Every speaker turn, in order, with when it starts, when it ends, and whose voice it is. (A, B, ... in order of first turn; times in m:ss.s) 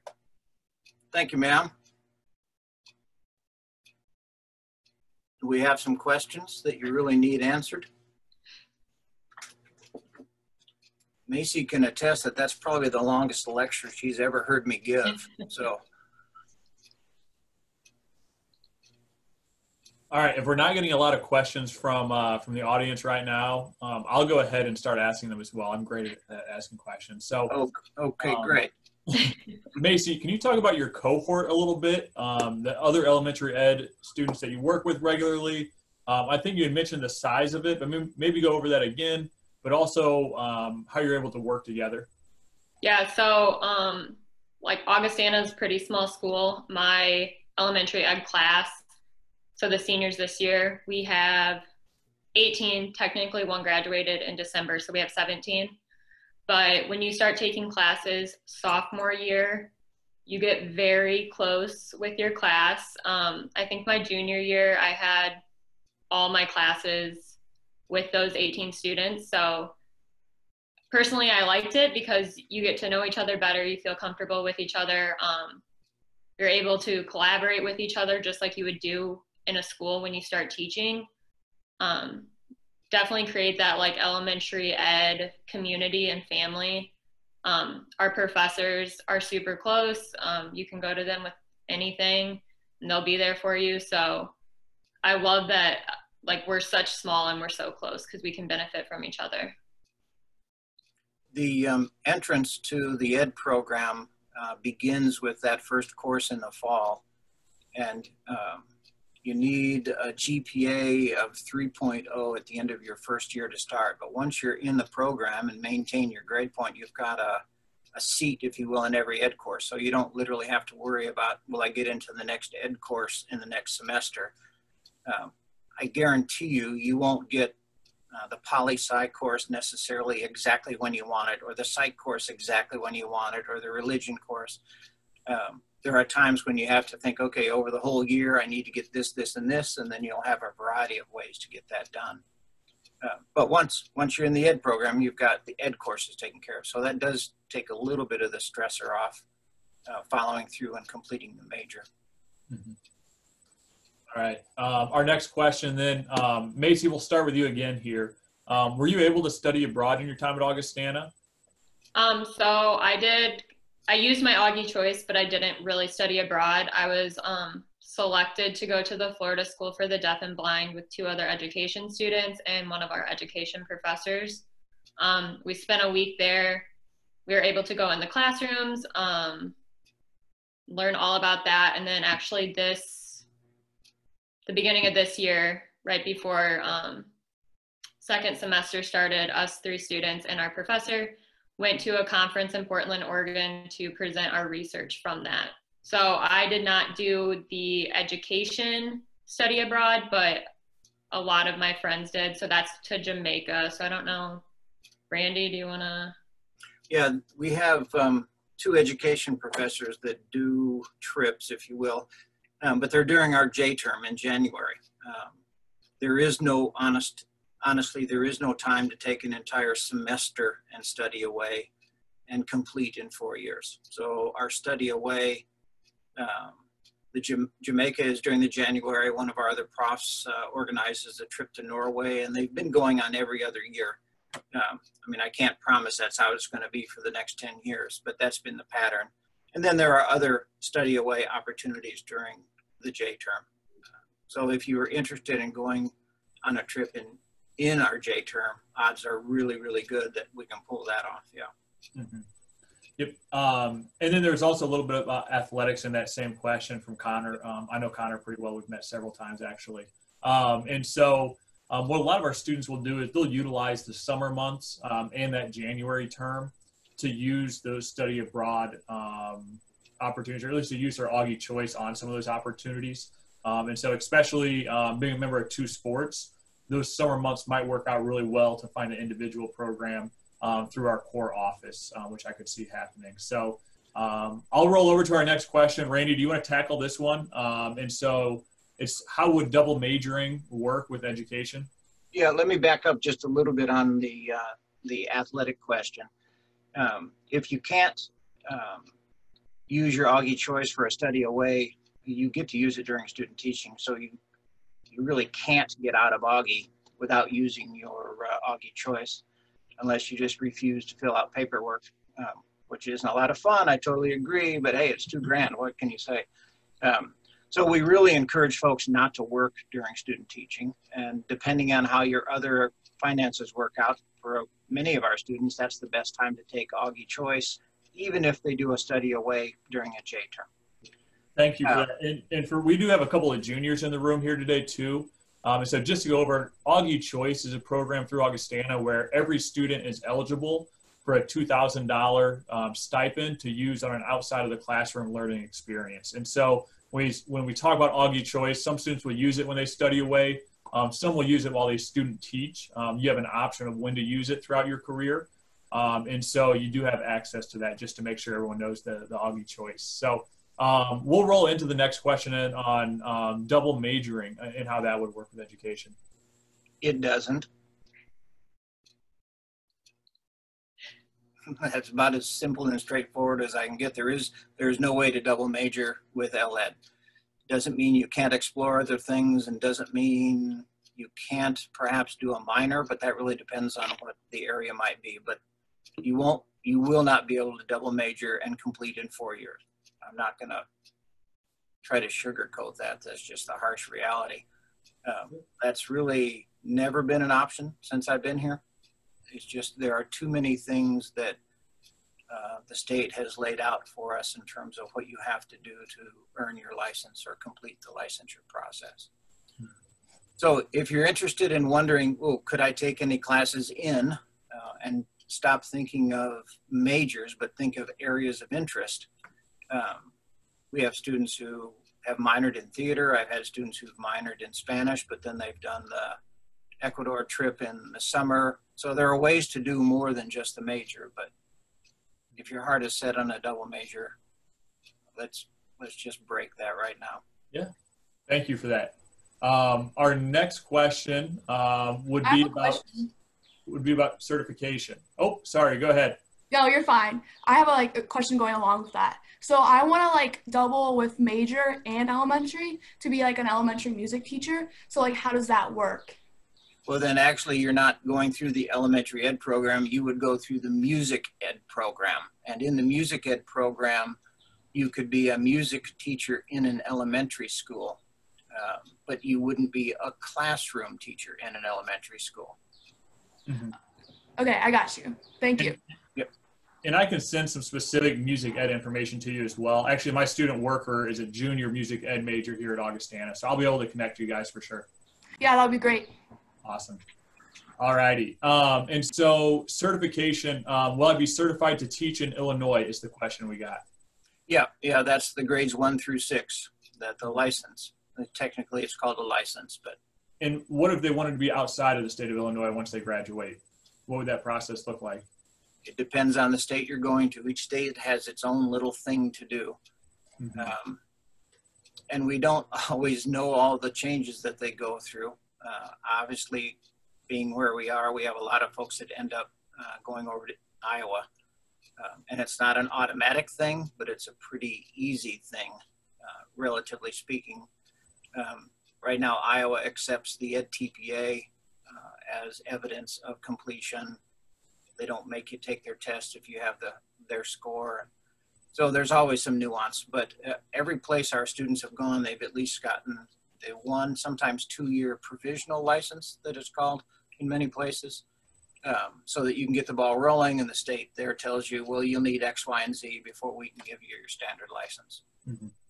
0:01.1-0:01.7 A
0:05.4-0:07.9 A
0:11.2-0:15.8 A
0:20.1-0:27.6 B
0:27.5-0:28.7 A
0:28.2-0:42.1 B
0:42.8-0:48.8 C
0:49.6-0:51.6 C
0:52.3-0:55.8 C
0:56.5-0:59.7 C
1:00.3-1:05.4 C
1:06.1-1:07.4 C
1:07.9-1:09.7 C
1:10.9-1:15.6 C
1:16.4-1:21.1 C
1:21.8-1:22.3 C
1:22.9-1:26.9 C
1:27.4-1:34.3 C
1:35.0-1:39.5 C
1:41.3-1:47.0 A
1:47.7-1:48.7 A
1:49.2-1:57.4 A
1:58.0-2:04.3 A
2:05.0-2:07.5 A
2:08.1-2:14.6 A
2:15.3-2:22.2 A
2:23.0-2:29.2 A
2:29.9-2:31.8 A
2:32.5-2:32.8 B
2:34.1-2:41.1 B
2:41.9-2:54.4 C
2:55.0-2:56.7 C
2:57.2-2:59.5 C
3:00.7-3:03.2 C
3:04.5-3:07.1 C
3:08.0-3:20.5 C
3:21.1-3:24.4 C
3:25.1-3:26.1 C
3:26.9-3:32.1 A
3:32.6-3:35.4 A
3:36.0-3:41.7 A
3:42.3-3:45.4 A
3:46.2-3:46.6 A
3:47.1-3:54.0 A
3:54.5-4:03.4 A
4:04.3-4:05.9 A
4:06.4-4:11.5 A
4:11.9-4:12.2 B
4:13.0-4:51.7 B
4:52.1-4:56.1 A
4:56.7-4:58.9 A
4:59.7-5:04.2 A
5:04.9-5:09.2 A
5:09.8-5:16.2 A
5:16.8-5:30.5 A
5:31.4-6:05.9 B
6:06.8-6:07.5 A
6:11.5-6:16.7 A
6:17.5-6:25.4 A
6:26.0-6:30.6 A
6:31.8-6:34.4 A
6:35.0-6:38.6 A
6:39.3-6:41.4 A
6:42.3-6:49.1 A
6:50.4-6:59.1 A
6:59.7-7:00.1 A
7:00.7-7:06.2 A
7:06.8-7:11.3 A
7:12.4-7:14.2 A
7:15.1-7:17.2 A
7:18.3-7:23.0 B
7:22.2-7:23.1 D
7:23.6-7:26.2 B
7:26.5-7:36.2 D
7:36.8-7:44.2 A
7:44.7-7:48.0 A
7:48.5-7:52.6 A
7:53.5-7:53.8 B
7:54.4-7:55.8 D
7:56.8-8:04.9 B
8:05.4-8:06.1 D
8:06.6-8:07.0 B
8:07.8-8:13.8 B
8:14.5-8:20.0 A
8:20.4-8:25.2 B
8:25.8-8:29.8 A
8:30.4-8:30.7 B
8:30.5-8:31.0 A
8:32.1-8:41.2 A
8:42.0-8:47.7 A
8:48.3-8:54.2 A
8:55.0-8:58.1 A
8:58.7-9:08.2 A
9:08.8-9:15.2 A
9:15.4-9:15.7 B